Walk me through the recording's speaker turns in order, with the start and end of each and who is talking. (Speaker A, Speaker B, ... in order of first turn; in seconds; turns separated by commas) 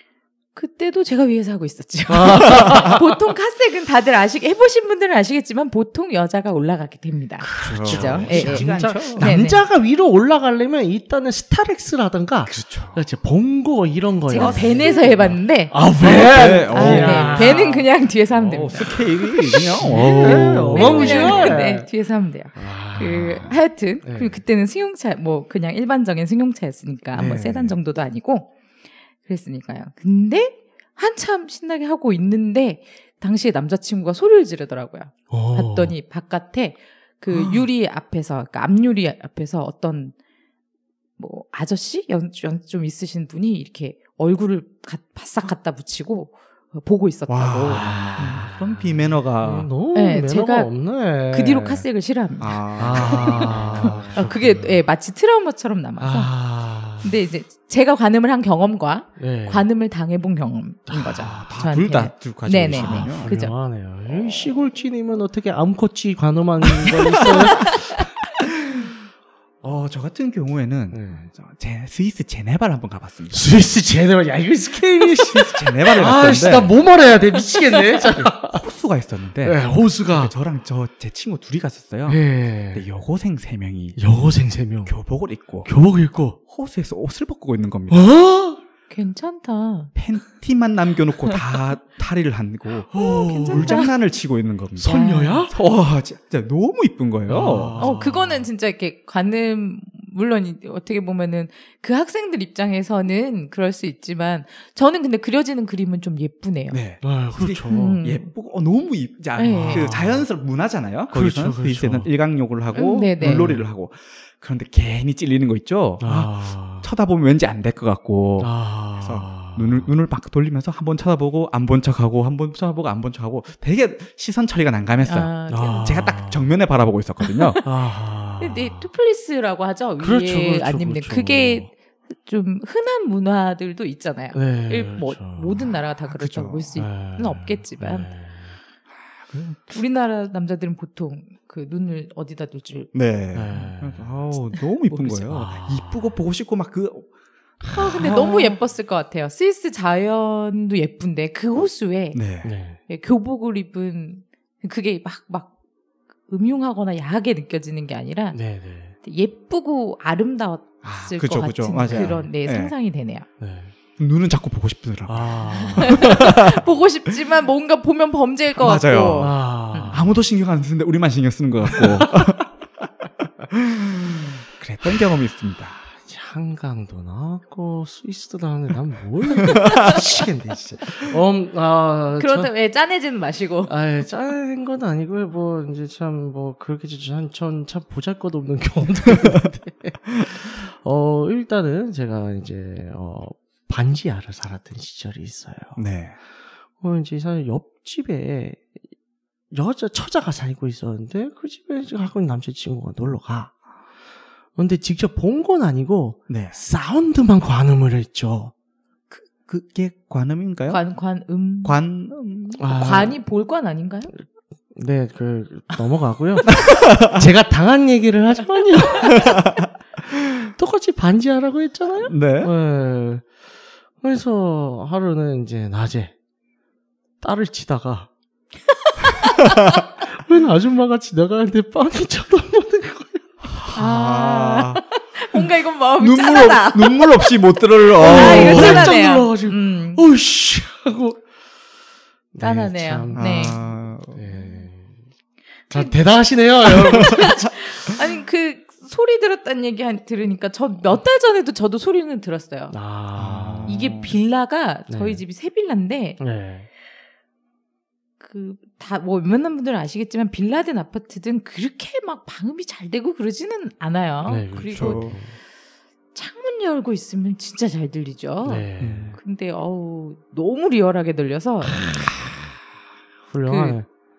Speaker A: 0.6-9.7, Speaker B: 2.1-3.2, Speaker B: 7.4-17.9, Speaker C: 7.6-9.3, Speaker C: 12.5-13.0, Speaker A: 14.3-15.8, Speaker C: 14.3-15.3, Speaker C: 16.0-17.8, Speaker A: 16.7-28.5, Speaker C: 18.3-21.6, Speaker B: 19.4-21.9, Speaker B: 22.6-24.4, Speaker B: 27.1-27.8, Speaker A: 29.3-40.1, Speaker B: 35.3-36.0, Speaker C: 37.3-37.6, Speaker A: 41.2-48.1, Speaker C: 47.3-49.7, Speaker B: 47.6-51.9, Speaker A: 49.9-50.7, Speaker A: 51.3-56.3, Speaker C: 52.4-54.3, Speaker B: 52.8-54.8, Speaker B: 56.0-57.2, Speaker A: 57.0-63.5, Speaker B: 59.2-59.7, Speaker B: 60.9-61.6, Speaker C: 61.2-63.3, Speaker B: 62.7-68.1, Speaker C: 66.8-67.7, Speaker C: 68.6-68.9, Speaker C: 69.6-73.6, Speaker B: 70.9-71.3, Speaker B: 73.3-78.6, Speaker C: 75.1-76.8, Speaker C: 78.1-84.3, Speaker B: 79.4-80.3, Speaker B: 82.1-82.9, Speaker B: 84.0-85.0, Speaker C: 84.8-85.7, Speaker B: 85.6-86.4, Speaker C: 86.5-88.1, Speaker B: 87.9-88.6, Speaker A: 88.9-89.9, Speaker C: 90.0-97.9, Speaker B: 92.9-93.9, Speaker A: 92.9-93.9, Speaker B: 94.8-95.5, Speaker A: 94.9-95.4, Speaker B: 97.3-98.5, Speaker A: 97.8-106.8, Speaker C: 106.7-127.6, Speaker B: 107.0-108.0, Speaker A: 107.7-108.3, Speaker A: 109.4-109.9, Speaker B: 109.5-110.3, Speaker B: 111.1-112.1, Speaker A: 112.8-113.6, Speaker B: 113.2-113.7, Speaker B: 116.0-116.9, Speaker B: 118.4-119.9, Speaker A: 125.0-125.9, Speaker B: 125.5-126.5, Speaker A: 127.3-127.6, Speaker B: 127.6-128.9, Speaker A: 128.4-138.1, Speaker B: 130.0-131.7, Speaker B: 134.3-135.7, Speaker C: 136.1-136.8, Speaker B: 136.8-138.6, Speaker C: 139.2-139.7, Speaker A: 139.7-142.9, Speaker C: 142.9-147.1, Speaker B: 143.3-144.1, Speaker A: 144.6-145.2, Speaker B: 145.2-146.2, Speaker C: 147.6-148.5, Speaker A: 147.7-152.2, Speaker C: 152.1-152.5, Speaker B: 152.4-152.8, Speaker A: 152.9-155.5, Speaker A: 156.3-158.4, Speaker B: 158.3-159.0, Speaker A: 159.0-163.3, Speaker C: 160.8-162.7, Speaker B: 161.8-162.2, Speaker B: 163.4-163.7, Speaker C: 164.0-166.6, Speaker B: 165.1-166.4, Speaker A: 165.8-169.9, Speaker C: 168.6-172.5, Speaker B: 169.2-170.2, Speaker B: 171.7-172.3, Speaker C: 173.5-175.9, Speaker B: 176.0-182.5, Speaker C: 179.5-180.0, Speaker A: 182.2-183.7, Speaker B: 183.7-195.8, Speaker C: 195.8-196.2, Speaker B: 196.8-198.6, Speaker B: 199.5-203.5, Speaker B: 204.6-208.5, Speaker C: 206.3-206.6, Speaker C: 209.1-210.8, Speaker A: 210.7-211.8, Speaker C: 211.6-212.7, Speaker B: 212.6-213.2, Speaker A: 212.7-214.1, Speaker B: 214.7-219.5, Speaker C: 216.5-217.2, Speaker C: 219.1-219.6, Speaker B: 220.3-223.3, Speaker C: 222.0-222.5, Speaker B: 224.0-226.1, Speaker B: 227.2-228.1, Speaker C: 229.4-229.8, Speaker B: 230.0-233.3, Speaker C: 233.5-234.8, Speaker A: 233.7-240.1, Speaker C: 236.0-239.0, Speaker B: 237.9-241.2, Speaker B: 242.3-244.9, Speaker A: 242.4-243.6, Speaker C: 243.1-244.2, Speaker B: 245.7-247.3, Speaker A: 246.9-252.8, Speaker B: 252.7-253.8, Speaker C: 253.2-254.2, Speaker A: 253.7-256.2, Speaker B: 254.9-255.2, Speaker B: 256.2-256.7, Speaker A: 258.2-265.2, Speaker B: 264.3-265.4, Speaker C: 264.7-265.2, Speaker A: 266.1-272.0, Speaker B: 268.4-269.2, Speaker C: 268.8-269.2, Speaker B: 273.3-273.9, Speaker A: 273.5-273.8